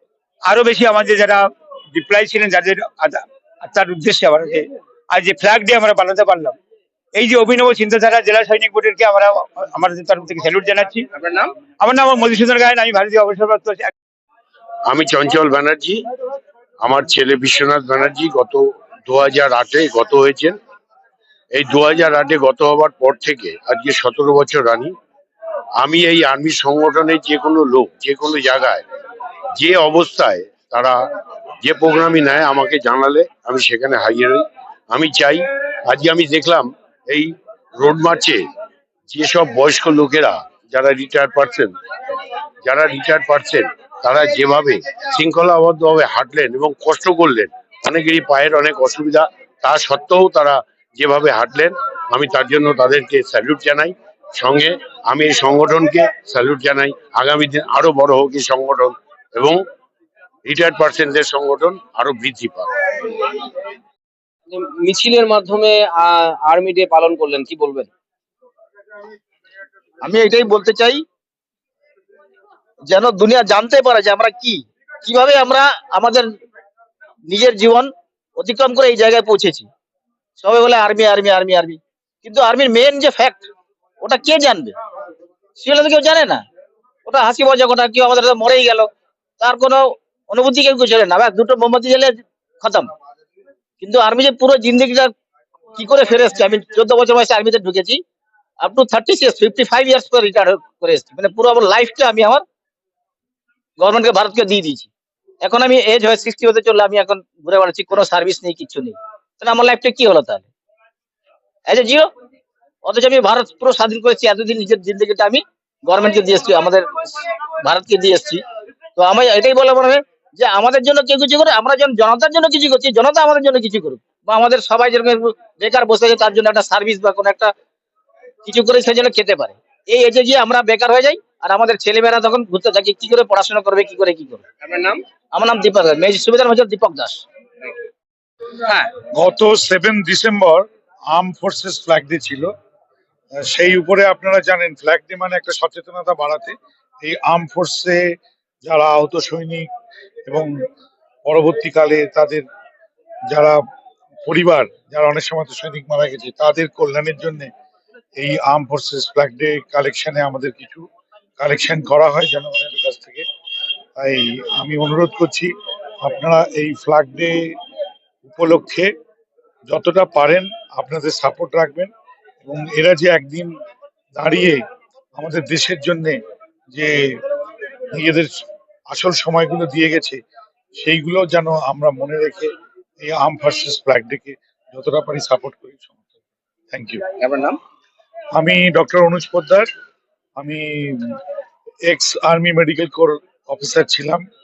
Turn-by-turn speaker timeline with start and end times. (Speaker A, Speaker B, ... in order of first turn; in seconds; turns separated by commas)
Speaker A: 0.5-4.6, Speaker A: 5.1-6.5, Speaker A: 7.2-11.0, Speaker B: 11.2-11.5, Speaker A: 11.8-13.9, Speaker C: 14.9-16.0, Speaker C: 16.8-20.6, Speaker C: 21.5-24.9, Speaker C: 25.8-28.8, Speaker C: 29.6-31.0, Speaker C: 31.6-38.4, Speaker C: 39.1-41.8, Speaker C: 42.6-59.6, Speaker C: 60.4-62.7, Speaker B: 64.5-67.9, Speaker D: 70.0-71.0, Speaker D: 72.9-76.3, Speaker D: 77.3-79.7, Speaker D: 80.4-83.5, Speaker D: 84.0-84.7, Speaker D: 85.6-86.4, Speaker D: 87.1-88.9, Speaker D: 89.4-92.9, Speaker D: 93.8-95.1, Speaker D: 95.8-98.0, Speaker D: 98.6-102.4, Speaker D: 103.8-104.9, Speaker D: 105.4-110.5, Speaker D: 111.7-112.1, Speaker D: 112.8-118.4, Speaker D: 119.0-127.5, Speaker D: 128.4-134.4, Speaker B: 134.6-135.0, Speaker D: 135.3-137.2, Speaker E: 139.1-142.5, Speaker E: 143.4-148.0, Speaker E: 148.6-149.7, Speaker E: 151.2-152.4, Speaker E: 153.3-153.6, Speaker E: 154.2-157.5, Speaker E: 158.2-160.8, Speaker E: 161.4-163.2, Speaker E: 164.0-165.5, Speaker E: 166.0-167.5, Speaker E: 168.2-168.9, Speaker E: 169.7-171.9, Speaker E: 172.4-173.5, Speaker E: 174.2-174.6, Speaker E: 175.2-176.2, Speaker E: 176.7-177.2, Speaker E: 177.9-180.2, Speaker E: 180.8-182.5, Speaker E: 183.0-186.0, Speaker E: 186.7-187.0, Speaker B: 187.2-187.6, Speaker E: 188.3-189.7, Speaker E: 190.4-191.2, Speaker E: 191.9-194.2